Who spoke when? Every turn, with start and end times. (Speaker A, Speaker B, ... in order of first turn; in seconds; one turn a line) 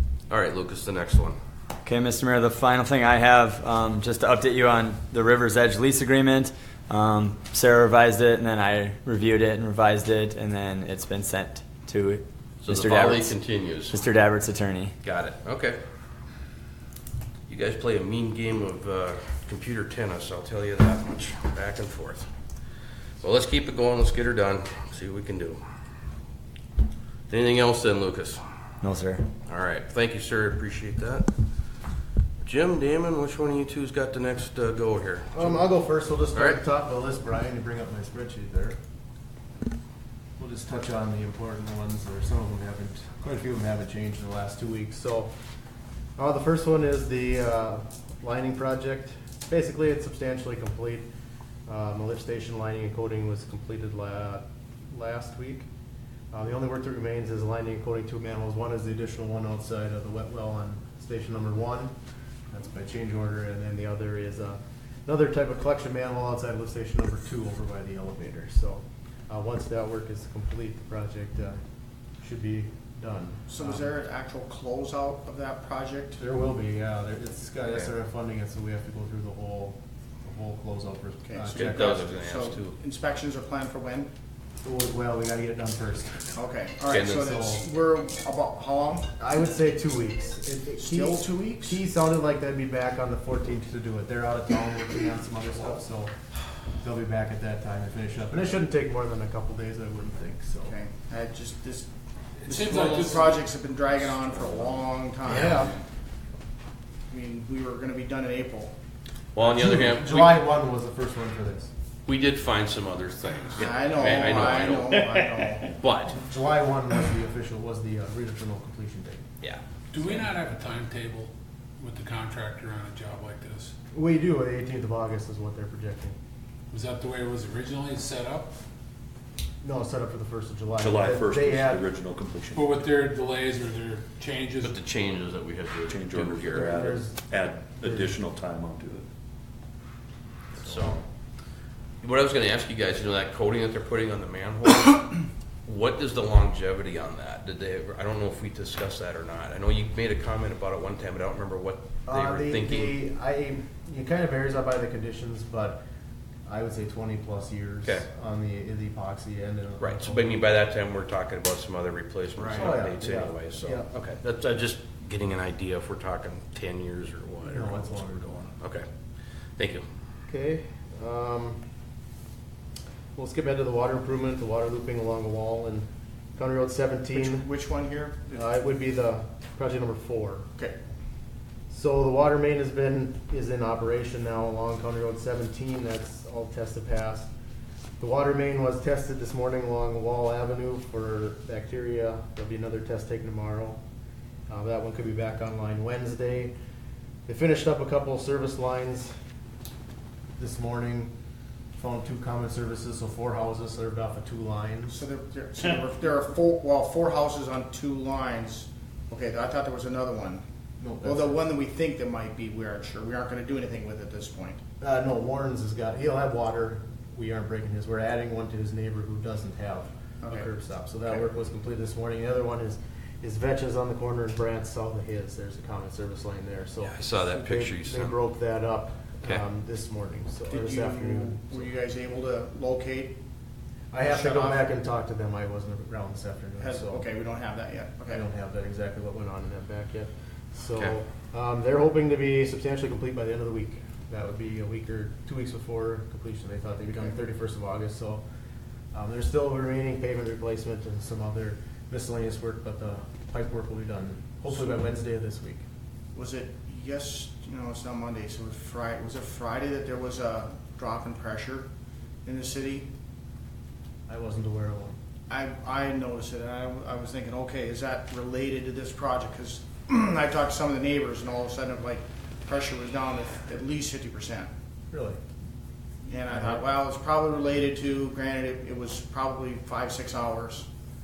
Speaker A: 0.3-1.4
Speaker B: 1.9-13.4
Speaker A: 12.6-14.0
Speaker B: 13.9-14.9
Speaker A: 15.0-15.8
Speaker A: 17.5-22.3
Speaker A: 23.2-25.6
Speaker A: 27.3-28.4
Speaker B: 28.8-29.2
Speaker A: 29.5-31.3
Speaker A: 32.4-35.6
Speaker C: 35.3-38.8
Speaker A: 36.3-36.6
Speaker C: 40.4-45.3
Speaker C: 46.2-51.1
Speaker C: 51.7-55.7
Speaker C: 56.3-61.9
Speaker C: 62.5-71.6
Speaker C: 72.2-73.9
Speaker D: 73.5-76.2
Speaker C: 76.2-82.2
Speaker D: 81.2-84.1
Speaker A: 81.5-82.8
Speaker C: 84.6-86.4
Speaker D: 86.3-89.1
Speaker A: 86.9-87.4
Speaker C: 87.2-87.7
Speaker C: 89.2-96.1
Speaker D: 90.8-91.8
Speaker C: 96.8-100.8
Speaker D: 100.7-101.9
Speaker E: 102.4-104.6
Speaker D: 102.5-105.6
Speaker C: 105.2-105.8
Speaker D: 107.1-108.7
Speaker A: 109.3-110.4
Speaker C: 109.4-111.7
Speaker A: 112.1-115.1
Speaker D: 113.6-115.8
Speaker A: 115.6-116.2
Speaker C: 116.1-119.2
Speaker E: 119.9-123.7
Speaker C: 123.9-126.2
Speaker E: 126.7-128.5
Speaker C: 129.6-131.8
Speaker F: 130.8-132.7
Speaker E: 132.5-134.8
Speaker A: 134.6-136.8
Speaker F: 135.9-139.1
Speaker C: 136.5-138.2
Speaker C: 140.6-140.9
Speaker A: 140.6-141.0
Speaker A: 142.0-153.0
Speaker C: 152.1-155.8
Speaker C: 156.5-160.4
Speaker A: 159.8-168.9
Speaker D: 162.4-162.7
Speaker C: 162.5-163.9
Speaker C: 167.4-168.4
Speaker A: 169.6-169.8
Speaker C: 170.3-171.6
Speaker C: 173.2-177.5
Speaker D: 177.1-178.5
Speaker C: 178.3-180.5
Speaker C: 181.7-187.3
Speaker C: 188.0-193.8
Speaker C: 194.5-196.5
Speaker C: 197.3-199.1
Speaker C: 200.4-201.1
Speaker C: 201.8-205.0
Speaker D: 204.9-210.4
Speaker C: 210.8-211.4
Speaker D: 211.0-214.6
Speaker C: 214.8-231.7
Speaker D: 220.2-220.5
Speaker A: 226.8-228.2
Speaker D: 230.5-233.2
Speaker C: 233.9-237.1
Speaker D: 234.0-234.7
Speaker D: 236.6-238.2
Speaker C: 238.1-248.2
Speaker C: 248.9-255.7
Speaker D: 254.5-254.8
Speaker D: 256.1-261.7
Speaker D: 262.2-262.9
Speaker C: 264.1-265.0
Speaker D: 265.3-274.5
Speaker C: 274.9-275.2
Speaker D: 276.1-280.7
Speaker C: 276.3-276.7